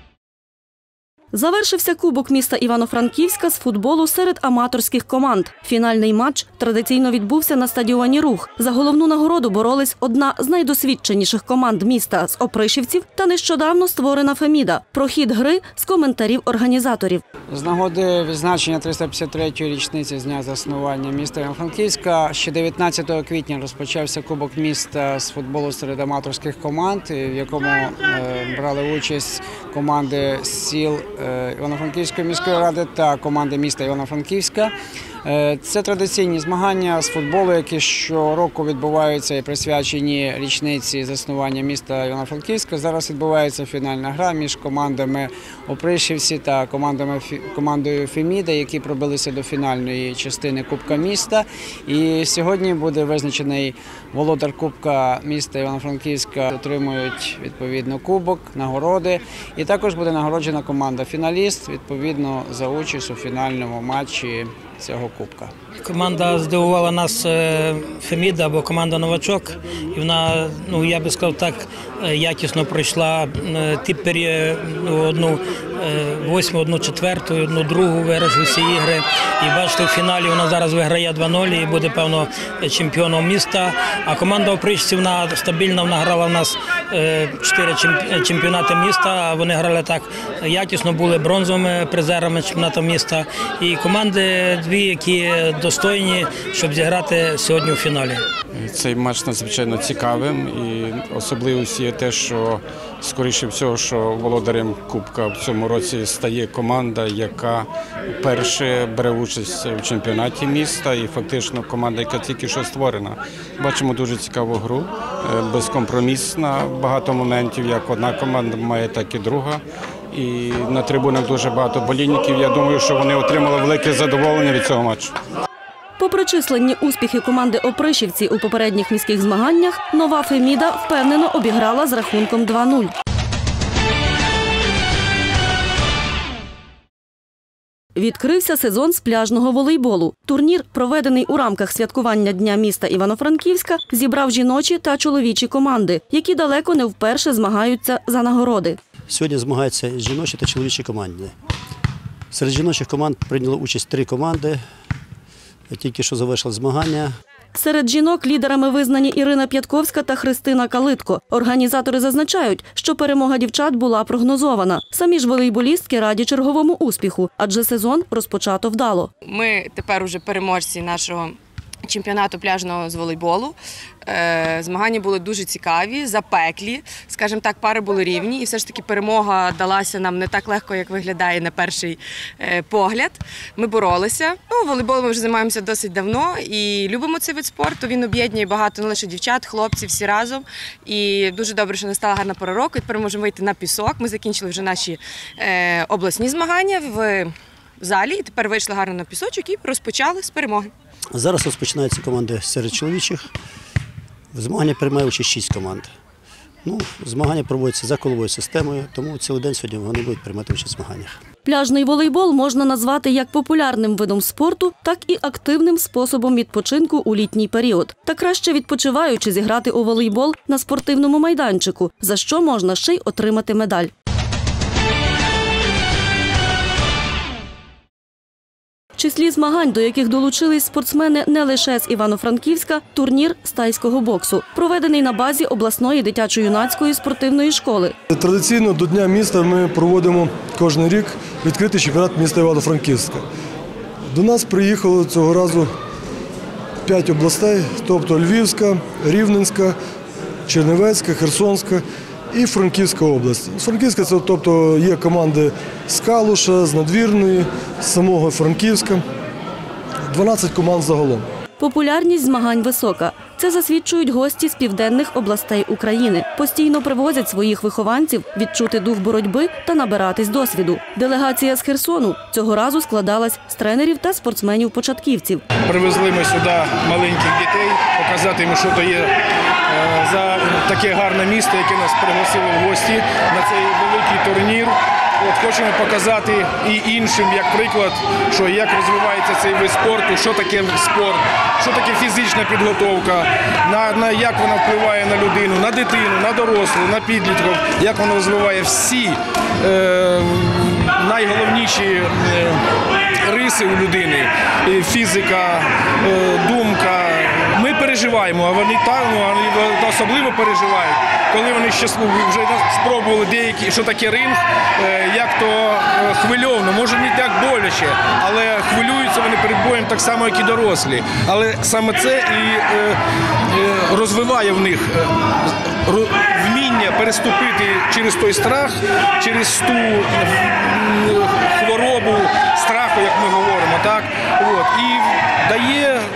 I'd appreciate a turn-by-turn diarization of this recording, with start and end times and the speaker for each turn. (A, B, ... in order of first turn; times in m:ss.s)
0:01.3-0:17.2 A
0:17.5-0:34.7 B
0:35.2-1:05.5 B
1:05.8-1:38.2 C
1:38.6-2:05.1 D
2:06.0-2:12.9 A
2:18.0-2:28.8 A
2:29.1-2:31.3 E
2:32.3-2:34.6 E
2:35.7-2:37.2 E
2:37.6-2:49.1 A
2:49.3-2:51.3 F
2:51.9-2:53.6 F
2:54.1-3:17.3 F
3:17.8-3:20.7 F
3:21.1-3:23.3 E
3:24.3-3:25.9 E
3:26.6-3:31.2 E
3:31.4-3:43.9 A
3:49.0-3:58.0 A
3:58.1-4:03.2 G
4:04.1-4:05.7 G
4:06.8-4:09.8 G
4:10.5-4:19.0 G
4:20.1-4:21.2 G
4:21.6-4:35.4 A
4:35.7-4:39.1 H
4:39.7-5:02.6 H
5:03.3-5:23.0 H
5:23.5-5:25.1 H
5:25.9-5:36.0 H